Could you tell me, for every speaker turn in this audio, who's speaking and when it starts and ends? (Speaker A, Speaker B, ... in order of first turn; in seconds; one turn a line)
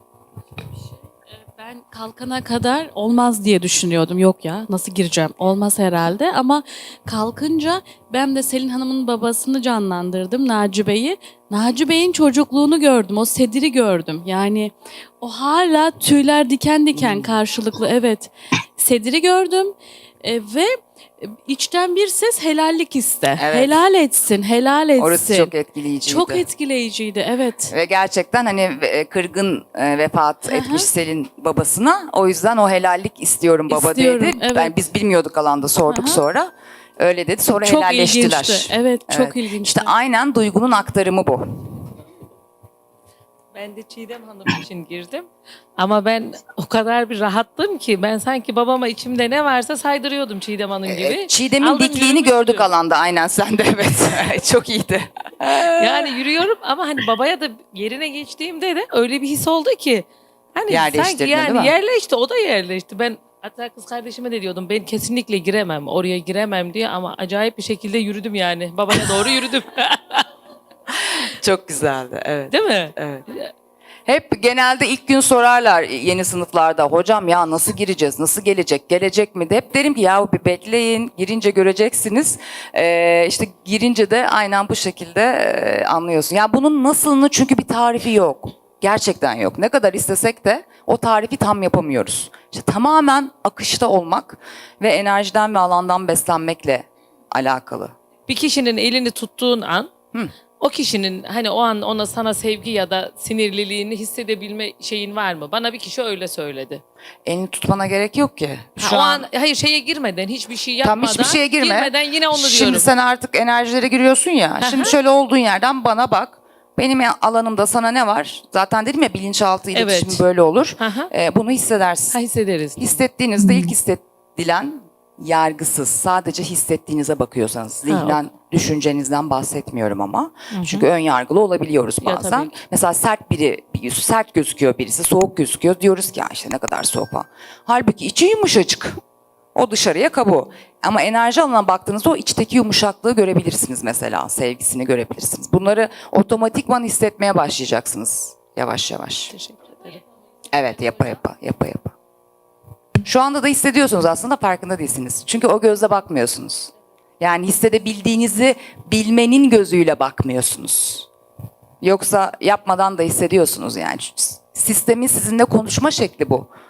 Speaker A: 1.6-25.5
Speaker B: 16.9-17.4
Speaker B: 23.4-23.8
Speaker B: 25.0-26.4
Speaker A: 26.1-27.7
Speaker B: 27.7-41.4
Speaker A: 30.5-30.9
Speaker A: 33.7-34.7
Speaker A: 35.9-36.2
Speaker A: 37.6-39.9
Speaker C: 43.5-52.7
Speaker B: 50.9-56.1
Speaker C: 55.8-70.3
Speaker B: 60.7-61.7
Speaker B: 70.9-73.2
Speaker C: 72.5-73.5
Speaker B: 74.1-97.9
Speaker C: 98.3-99.9
Speaker C: 100.6-106.8
Speaker B: 107.2-109.3
Speaker C: 108.8-112.9
Speaker B: 110.8-122.2
Speaker C: 114.6-115.0
Speaker C: 119.7-120.2
Speaker C: 120.8-121.1
Speaker C: 122.1-123.7
Speaker B: 122.8-139.0
Speaker C: 127.9-128.2
Speaker C: 130.5-130.9
Speaker C: 132.0-132.5
Speaker B: 139.6-149.3
Speaker C: 149.3-150.0
Speaker B: 150.5-151.9
Speaker B: 153.0-161.1
Speaker B: 161.8-166.5